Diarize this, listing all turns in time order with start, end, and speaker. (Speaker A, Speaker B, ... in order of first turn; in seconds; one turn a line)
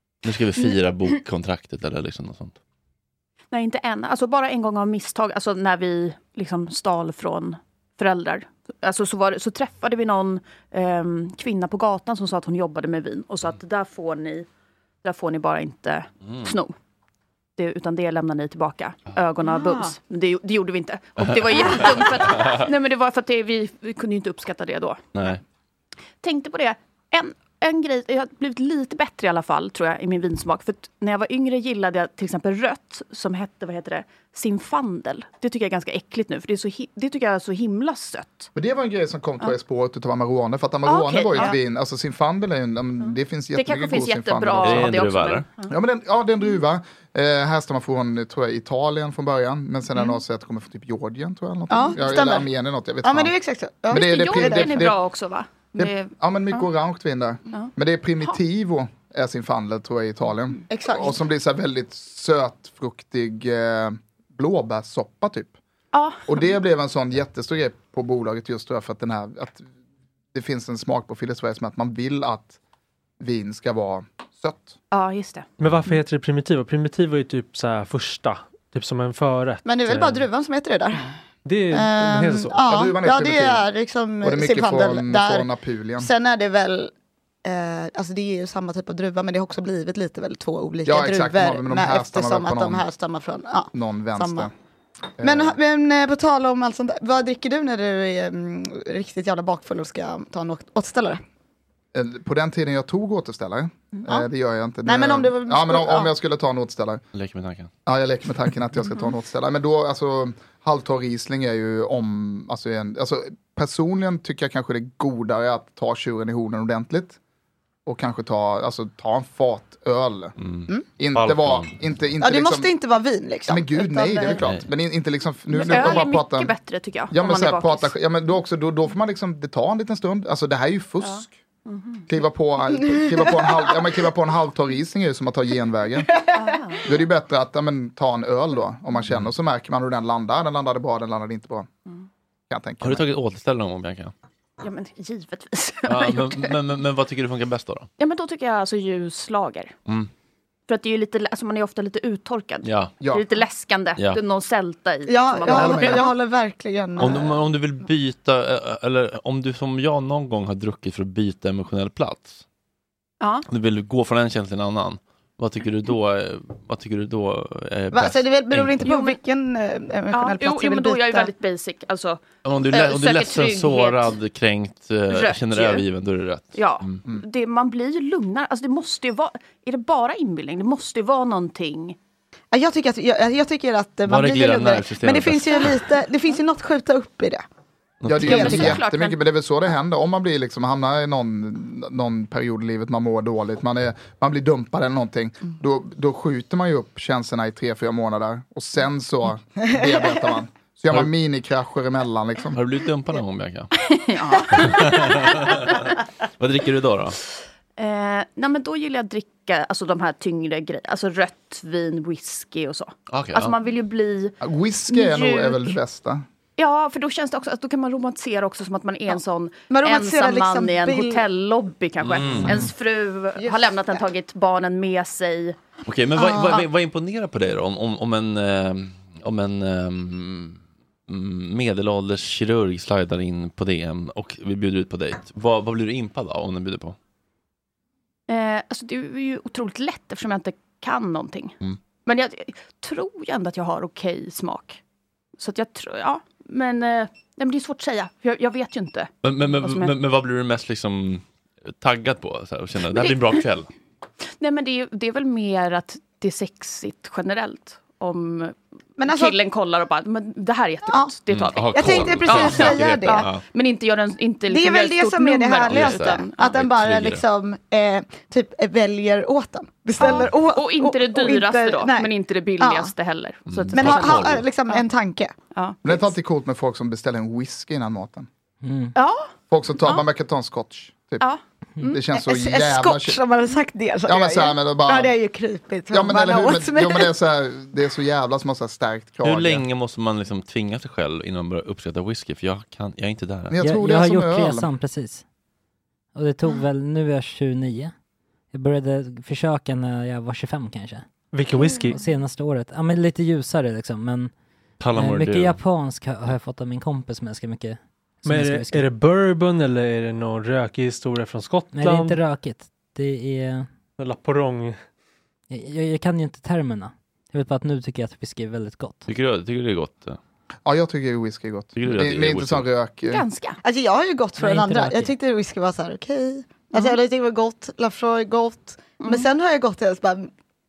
Speaker A: 0.2-2.6
Speaker B: 3.5-14.5
Speaker B: 15.0-16.7
Speaker B: 17.6-25.0
Speaker C: 19.4-19.9
Speaker A: 21.2-22.6
Speaker A: 25.1-25.4
Speaker B: 26.2-38.5
Speaker D: 38.5-44.9
Speaker B: 40.9-41.5
Speaker B: 43.5-45.7
Speaker A: 44.6-45.5
Speaker D: 45.7-53.3
Speaker C: 51.7-52.5
Speaker C: 53.0-54.8
Speaker D: 53.9-55.0
Speaker B: 53.9-56.6
Speaker D: 55.7-65.5
Speaker C: 60.7-61.2
Speaker B: 65.9-66.4
Speaker D: 66.3-69.6
Speaker D: 70.3-72.6
Speaker D: 73.2-74.8
Speaker B: 74.9-75.5
Speaker E: 75.6-80.2
Speaker C: 79.6-81.1
Speaker E: 81.4-82.6
Speaker C: 81.7-85.5
Speaker D: 82.6-83.6
Speaker D: 84.2-86.1
Speaker C: 86.0-86.9
Speaker C: 87.4-94.5
Speaker D: 90.8-92.8
Speaker D: 93.7-94.5
Speaker D: 95.2-95.6
Speaker C: 95.2-101.2
Speaker D: 101.9-107.0
Speaker C: 104.8-106.1
Speaker A: 107.1-107.7
Speaker D: 107.8-117.2
Speaker D: 117.8-120.3
Speaker A: 120.4-121.7
Speaker D: 121.0-122.7
Speaker C: 122.2-124.4
Speaker D: 123.5-126.5
Speaker A: 124.3-124.7
Speaker B: 125.5-127.9
Speaker C: 125.5-126.0
Speaker D: 127.1-131.3
Speaker B: 131.0-132.1
Speaker D: 132.1-136.1
Speaker C: 132.9-133.6
Speaker B: 136.3-136.9
Speaker D: 136.8-141.7
Speaker D: 142.5-143.1
Speaker A: 142.8-144.1
Speaker B: 144.6-146.5
Speaker A: 145.9-147.9
Speaker B: 148.0-149.7
Speaker B: 150.7-156.1
Speaker A: 152.6-152.9
Speaker D: 153.0-153.2
Speaker C: 155.1-157.4
Speaker D: 155.4-156.1
Speaker A: 157.0-162.4
Speaker B: 163.2-163.4
Speaker A: 163.5-168.8
Speaker C: 167.9-171.3
Speaker B: 168.8-169.2
Speaker B: 170.1-174.2
Speaker A: 172.4-177.0
Speaker B: 175.1-175.8
Speaker B: 176.5-181.9
Speaker C: 182.5-187.4
Speaker A: 184.1-185.8
Speaker A: 188.0-188.8
Speaker D: 188.0-202.6
Speaker C: 188.2-188.7
Speaker B: 188.2-189.2
Speaker A: 202.6-203.7
Speaker B: 203.9-205.8
Speaker A: 204.5-207.2
Speaker B: 207.8-214.3
Speaker A: 213.1-213.5
Speaker D: 214.4-216.2
Speaker B: 214.9-215.8
Speaker B: 216.6-225.6
Speaker C: 219.7-221.2
Speaker A: 222.0-222.6
Speaker C: 223.4-224.0
Speaker A: 225.8-236.9
Speaker C: 226.2-226.7
Speaker B: 238.3-244.8
Speaker B: 245.4-249.1
Speaker A: 249.2-253.7
Speaker B: 249.6-249.9
Speaker B: 252.9-253.4
Speaker B: 254.4-266.6
Speaker C: 259.0-259.4
Speaker A: 261.3-263.4
Speaker C: 261.7-263.2
Speaker C: 264.5-272.9
Speaker A: 265.7-267.2
Speaker B: 270.0-274.8
Speaker A: 273.5-274.4
Speaker C: 273.7-275.3
Speaker B: 275.5-275.8
Speaker D: 275.8-278.3
Speaker F: 278.6-278.9
Speaker B: 278.9-279.3
Speaker D: 279.5-281.2
Speaker B: 281.2-282.0
Speaker D: 281.8-283.2
Speaker C: 282.1-287.1
Speaker D: 284.1-285.1
Speaker D: 285.9-289.6
Speaker A: 289.2-293.5
Speaker D: 293.5-294.7
Speaker F: 293.6-295.2
Speaker F: 296.1-297.9
Speaker F: 298.5-301.0
Speaker E: 301.3-302.0
Speaker F: 301.7-304.3
Speaker A: 304.8-305.6
Speaker F: 304.9-308.9
Speaker E: 308.2-312.2
Speaker F: 311.7-313.7
Speaker E: 314.0-314.8
Speaker F: 315.5-319.1
Speaker A: 319.1-320.2
Speaker D: 320.6-323.2
Speaker A: 321.8-322.6
Speaker B: 323.1-323.6
Speaker C: 323.6-330.3
Speaker F: 324.4-325.1
Speaker B: 329.0-329.3